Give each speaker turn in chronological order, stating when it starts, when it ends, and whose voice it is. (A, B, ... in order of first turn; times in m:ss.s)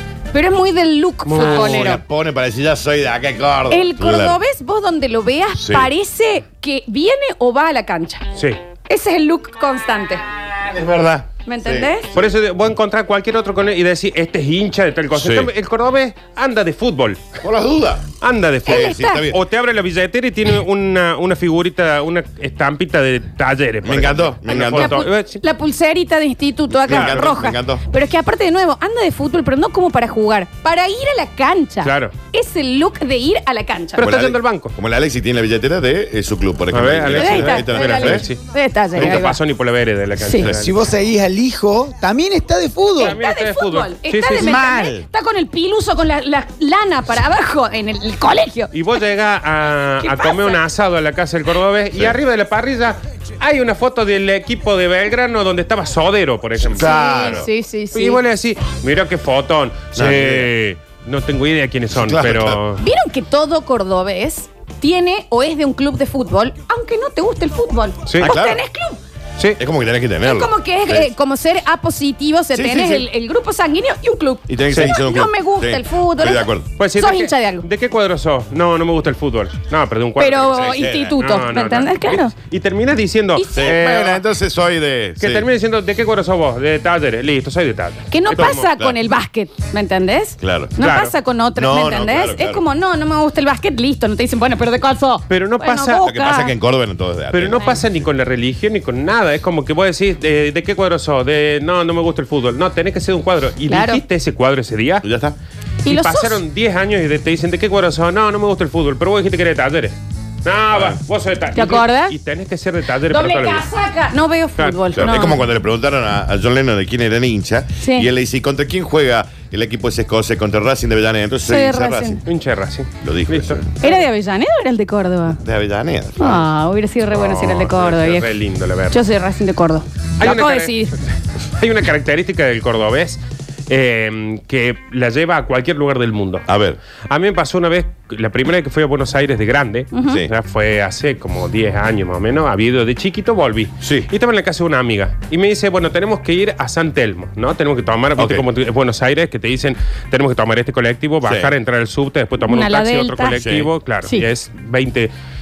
0:00.3-0:02.0 A
0:01.2-0:02.0 B
0:01.4-0:04.4 C
0:03.7-0:08.2 A
0:05.6-0:05.9 C
0:08.9-0:10.2 A
0:10.6-0:11.9 C
0:11.4-0:12.1 A
0:12.1-0:17.2 B
0:15.1-0:15.5 C
0:17.4-0:18.1 C
0:18.2-0:25.4 B
0:18.6-0:19.4 C
0:18.7-0:19.2 A
0:23.8-0:25.1 C
0:24.5-0:34.1 A
0:26.7-0:27.8 C
0:26.9-0:27.2 B
0:31.8-0:32.1 B
0:34.0-0:34.7 B
0:34.0-0:38.2 C
0:36.7-0:38.4 B
0:37.2-0:39.4 A
0:38.9-0:40.8 B
0:39.0-0:39.2 C
0:40.4-0:43.2 D
0:43.0-0:44.6 B
0:43.0-0:48.7 A
0:44.4-0:45.1 C
0:48.7-1:02.8 B
0:50.0-0:50.6 A
0:56.6-0:57.5 C
0:56.8-0:58.2 A
1:00.0-1:00.5 C
1:01.9-1:02.6 C
1:02.8-1:09.0 A
1:08.2-1:08.6 C
1:09.6-1:11.1 C
1:10.2-1:17.6 A
1:12.5-1:13.1 C
1:14.5-1:16.7 C
1:16.8-1:24.0 B
1:20.2-1:22.3 A
1:20.5-1:21.2 C
1:23.4-1:24.2 A
1:23.6-1:25.4 C
1:25.2-1:28.7 B
1:28.1-1:36.5 A
1:28.3-1:29.0 C
1:30.4-1:30.9 C
1:30.8-1:31.1 B
1:31.6-1:32.6 C
1:35.3-1:36.0 B
1:35.9-1:37.9 C
1:37.3-1:45.0 B
1:43.7-1:44.0 A
1:45.0-1:45.4 C
1:45.8-1:46.4 A
1:45.9-1:53.7 B
1:51.6-1:52.2 A
1:53.1-1:55.4 A
1:54.6-1:55.3 B
1:55.0-2:02.2 C
1:57.8-1:58.1 A
2:01.5-2:02.2 A
2:02.2-2:04.0 B
2:03.0-2:03.7 C
2:03.8-2:05.4 A
2:05.4-2:06.4 C
2:06.2-2:08.2 A
2:07.1-2:09.0 B
2:08.9-2:11.0 A
2:10.2-2:11.0 B
2:11.6-2:16.4 B
2:16.5-2:16.8 C
2:17.1-2:35.1 B
2:19.9-2:20.2 A
2:23.8-2:24.1 C
2:28.2-2:28.4 C
2:31.2-2:31.5 C
2:32.4-2:33.4 A
2:33.4-2:33.7 C